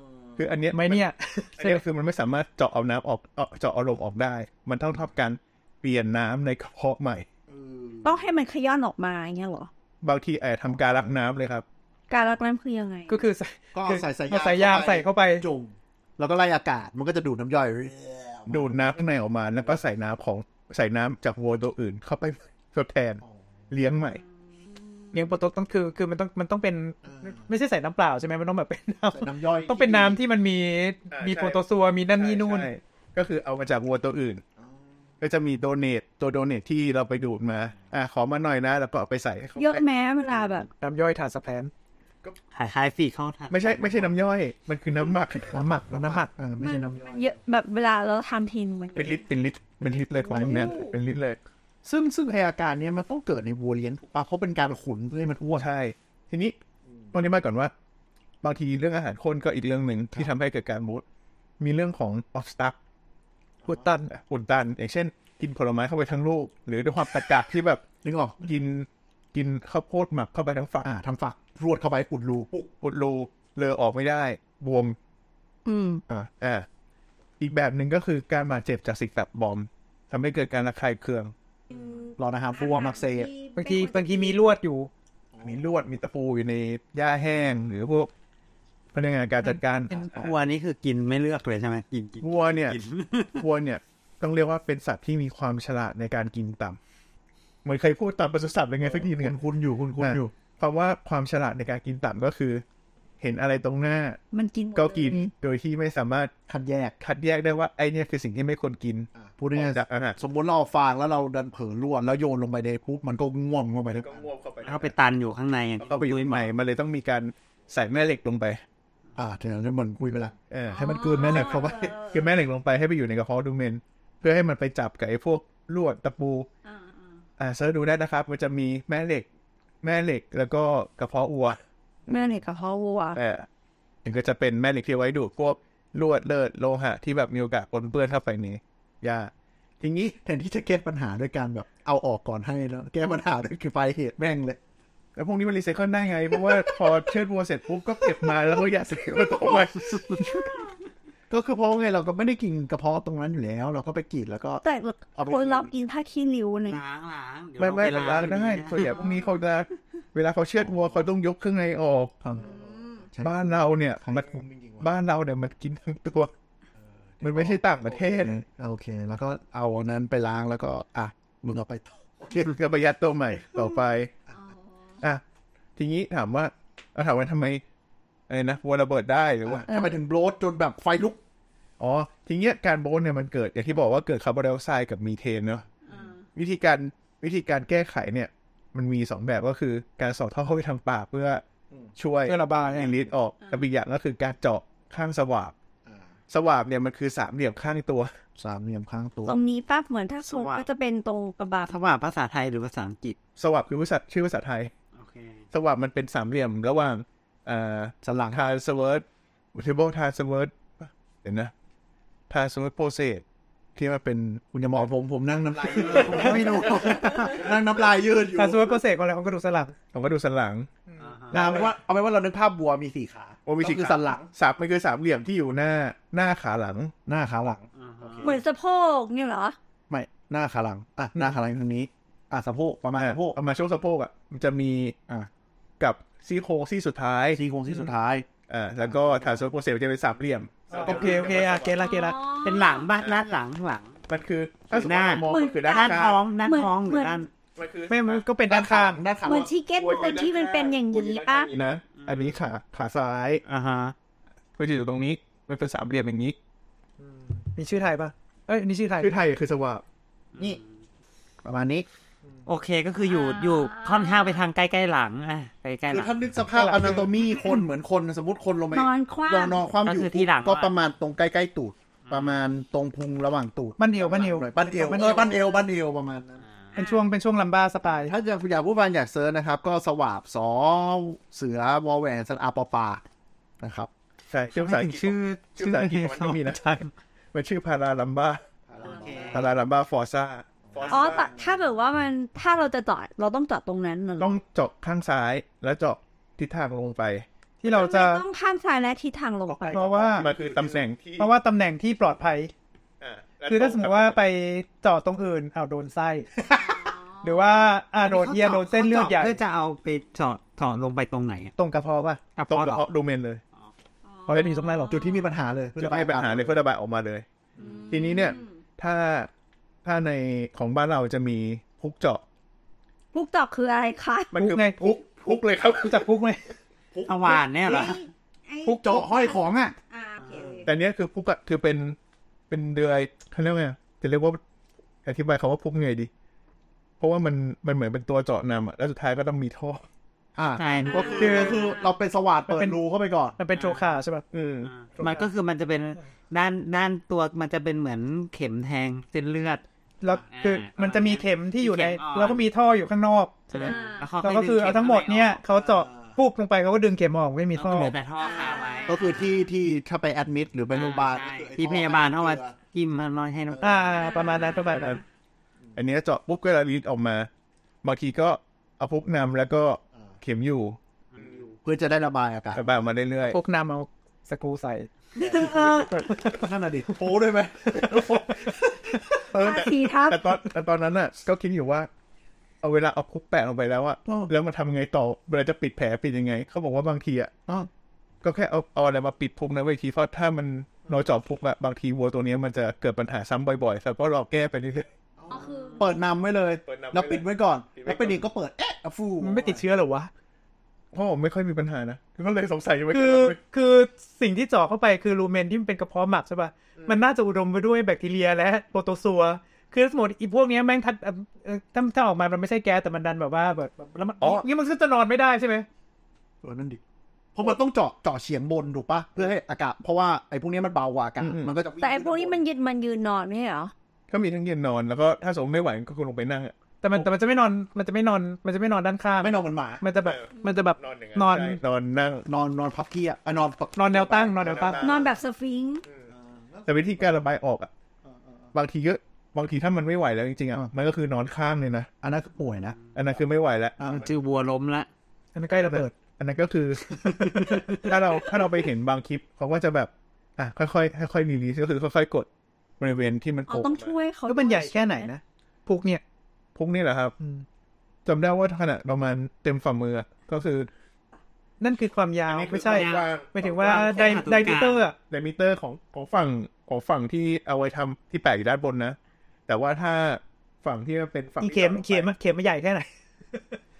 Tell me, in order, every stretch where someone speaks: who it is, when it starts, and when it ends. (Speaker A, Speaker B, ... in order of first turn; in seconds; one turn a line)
Speaker A: 0.4-1.0
Speaker B: 0.7-1.8
Speaker A: 1.6-7.3
Speaker C: 7.5-8.2
Speaker D: 8.0-9.7
Speaker A: 10.0-11.7
Speaker D: 12.1-13.2
Speaker B: 13.1-15.4
Speaker C: 13.8-18.8
Speaker A: 18.5-24.2
Speaker B: 25.1-32.7
Speaker C: 27.1-27.3
Speaker C: 29.1-30.2
Speaker A: 31.1-34.4
Speaker A: 35.2-39.8
Speaker D: 39.6-40.7
Speaker B: 40.8-41.7
Speaker E: 42.5-44.1
Speaker A: 43.5-46.3
Speaker C: 45.5-47.3
Speaker D: 46.6-49.2
Speaker A: 49.0-51.4
Speaker C: 50.2-50.8
Speaker D: 50.3-50.9
Speaker C: 51.8-55.7
Speaker A: 55.5-56.6
Speaker A: 57.1-57.7
Speaker A: 58.4-61.0
Speaker A: 61.6-62.8
Speaker B: 63.7-64.1
Speaker A: 64.1-67.8
Speaker C: 68.0-68.4
Speaker A: 68.4-70.9
Speaker C: 70.8-72.7
Speaker A: 72.8-75.0
Speaker D: 75.7-76.0
Speaker A: 76.1-76.7
Speaker A: 77.4-81.3
Speaker D: 81.7-84.4
Speaker C: 82.2-83.3
Speaker B: 83.5-84.9
Speaker A: 85.4-88.1
Speaker A: 88.9-90.1
Speaker E: 90.0-93.4
Speaker A: 92.2-92.8
Speaker A: 93.4-96.8
Speaker A: 97.6-99.4
Speaker C: 98.9-100.3
Speaker A: 100.0-102.6
Speaker A: 103.2-104.2
Speaker D: 104.3-105.3
Speaker A: 104.8-106.3
Speaker C: 106.5-107.0
Speaker A: 107.0-110.2
Speaker C: 109.2-114.3
Speaker A: 114.0-114.9
Speaker E: 114.6-116.5
Speaker A: 115.8-118.6
Speaker C: 119.2-120.3
Speaker A: 120.5-126.5
Speaker D: 120.7-122.3
Speaker C: 120.9-122.0
Speaker D: 126.7-127.2
Speaker A: 127.4-129.3
Speaker A: 129.8-131.6
Speaker D: 132.1-133.2
Speaker A: 133.2-133.5
Speaker A: 134.0-140.0
Speaker C: 139.9-144.6
Speaker A: 145.2-150.5
Speaker C: 151.3-154.6
Speaker D: 154.6-156.8
Speaker C: 155.2-155.7
Speaker E: 156.7-158.9
Speaker A: 157.6-162.2
Speaker D: 158.8-159.2
Speaker C: 162.2-164.9
Speaker D: 162.5-163.0
Speaker A: 163.2-166.3
Speaker C: 167.2-172.5
Speaker A: 167.2-168.4
Speaker A: 172.4-174.1
Speaker A: 175.8-177.6
Speaker A: 178.3-179.7
Speaker C: 179.4-181.2
Speaker A: 181.8-185.7
Speaker D: 185.9-186.2
Speaker A: 186.3-191.4
Speaker A: 191.9-195.6
Speaker B: 192.3-192.9
Speaker A: 196.3-198.1
Speaker C: 198.4-199.4
Speaker D: 199.3-201.7
Speaker E: 200.2-200.7
Speaker E: 201.7-203.2
Speaker A: 203.4-204.7
Speaker E: 204.9-205.4
Speaker A: 205.5-211.5
Speaker C: 208.0-208.4
Speaker A: 212.3-213.2
Speaker A: 213.8-214.4
Speaker C: 214.5-218.7
Speaker A: 216.0-216.4
Speaker B: 216.3-216.6
Speaker B: 218.4-219.8
Speaker A: 219.9-220.7
Speaker E: 221.0-221.4
Speaker C: 221.3-224.3
Speaker A: 221.3-221.7
Speaker A: 223.4-226.9
Speaker C: 227.1-228.4
Speaker E: 227.8-228.3
Speaker D: 228.2-229.6
Speaker C: 229.9-233.4
Speaker A: 232.9-234.9
Speaker A: 235.8-237.4
Speaker C: 237.3-238.3
Speaker A: 238.5-241.8
Speaker C: 238.9-239.4
Speaker B: 240.7-242.2
Speaker D: 241.8-242.9
Speaker E: 242.4-244.0
Speaker A: 244.1-246.2
Speaker E: 244.7-247.3
Speaker D: 245.3-247.2
Speaker A: 247.6-248.2
Speaker B: 247.9-249.0
Speaker C: 248.5-249.5
Speaker D: 249.2-251.5
Speaker A: 249.8-253.4
Speaker E: 251.9-252.3
Speaker E: 253.4-253.9
Speaker A: 254.6-256.4
Speaker B: 257.6-259.1
Speaker A: 259.0-259.8
Speaker E: 260.3-260.6
Speaker C: 261.4-261.9
Speaker E: 262.4-266.2
Speaker D: 263.1-264.3
Speaker C: 265.9-276.4
Speaker B: 266.5-267.1
Speaker D: 268.7-269.6
Speaker E: 269.8-270.7
Speaker E: 272.1-272.4
Speaker B: 273.8-275.3
Speaker B: 276.8-278.1
Speaker D: 276.8-277.0
Speaker C: 278.0-283.0
Speaker C: 283.6-283.9
Speaker A: 284.3-286.6
Speaker E: 284.5-286.9
Speaker A: 287.3-288.4
Speaker C: 288.7-289.5
Speaker E: 288.8-289.4
Speaker A: 289.3-291.3
Speaker C: 290.7-291.5
Speaker D: 290.9-294.3
Speaker A: 294.2-297.3
Speaker B: 297.6-298.2
Speaker D: 297.6-299.9
Speaker C: 299.6-300.8
Speaker B: 299.7-300.3
Speaker A: 300.1-301.3
Speaker B: 301.2-302.5
Speaker A: 303.0-304.2
Speaker B: 303.5-306.3
Speaker C: 306.4-306.8
Speaker D: 306.6-307.7
Speaker B: 307.2-309.4
Speaker E: 308.0-311.5
Speaker B: 311.6-312.2
Speaker E: 312.4-312.8
Speaker A: 312.5-313.4
Speaker D: 314.1-315.3
Speaker B: 314.3-315.0
Speaker C: 314.9-316.6
Speaker A: 315.8-317.3
Speaker D: 317.6-318.5
Speaker A: 317.9-319.3
Speaker A: 319.8-322.2
Speaker D: 323.1-324.3
Speaker A: 324.3-326.1
Speaker B: 324.4-325.0
Speaker B: 325.8-326.4
Speaker C: 326.9-327.9
Speaker E: 327.1-328.1
Speaker D: 327.6-330.7
Speaker C: 328.6-329.8
Speaker A: 330.6-332.0
Speaker A: 332.5-334.4
Speaker A: 335.1-336.1
Speaker A: 337.0-339.8
Speaker C: 340.4-343.4
Speaker E: 340.6-341.5
Speaker D: 340.9-341.9
Speaker B: 341.2-341.6
Speaker B: 342.5-342.8
Speaker B: 343.4-344.2
Speaker E: 343.6-343.8
Speaker A: 344.3-344.7
Speaker E: 344.7-349.6
Speaker B: 350.0-357.9
Speaker E: 350.3-352.4
Speaker E: 353.5-355.4
Speaker D: 353.6-354.1
Speaker E: 357.6-359.3
Speaker D: 358.2-359.2
Speaker C: 358.9-362.6
Speaker E: 360.7-363.9
Speaker C: 363.5-363.9
Speaker B: 363.6-365.0
Speaker D: 363.9-364.9
Speaker A: 364.7-365.0
Speaker A: 365.8-367.3
Speaker A: 367.8-370.8
Speaker C: 371.2-372.6
Speaker A: 372.5-373.4
Speaker B: 373.3-374.9
Speaker D: 375.2-376.1
Speaker C: 375.2-379.3
Speaker B: 376.1-376.4
Speaker D: 379.3-380.3
Speaker A: 379.3-381.9
Speaker A: 382.6-387.3
Speaker A: 388.2-394.9
Speaker C: 395.2-399.6
Speaker D: 395.3-395.9
Speaker A: 396.6-398.2
Speaker B: 399.2-400.1
Speaker A: 400.9-403.4
Speaker B: 402.9-415.7
Speaker A: 406.8-407.0
Speaker A: 414.2-414.4
Speaker C: 416.4-416.8
Speaker C: 417.3-422.4
Speaker A: 421.2-421.5
Speaker D: 421.8-423.7
Speaker A: 424.1-427.1
Speaker B: 426.8-431.6
Speaker C: 429.2-429.8
Speaker A: 430.0-432.3
Speaker C: 432.3-434.7
Speaker B: 433.8-434.8
Speaker A: 434.1-435.1
Speaker D: 434.8-435.9
Speaker C: 436.1-436.8
Speaker A: 436.7-437.7
Speaker C: 438.1-438.4
Speaker A: 438.5-441.9
Speaker C: 442.0-442.8
Speaker A: 442.9-444.0
Speaker C: 443.8-444.1
Speaker E: 443.9-444.9
Speaker B: 445.3-445.9
Speaker A: 445.5-452.3
Speaker E: 447.1-447.8
Speaker A: 452.8-453.9
Speaker D: 453.5-455.1
Speaker B: 454.3-456.0
Speaker A: 456.6-457.1
Speaker B: 457.2-457.4
Speaker A: 458.1-460.7
Speaker B: 461.6-464.9
Speaker A: 462.3-464.4
Speaker E: 462.6-464.8
Speaker A: 465.1-472.1
Speaker B: 471.4-473.6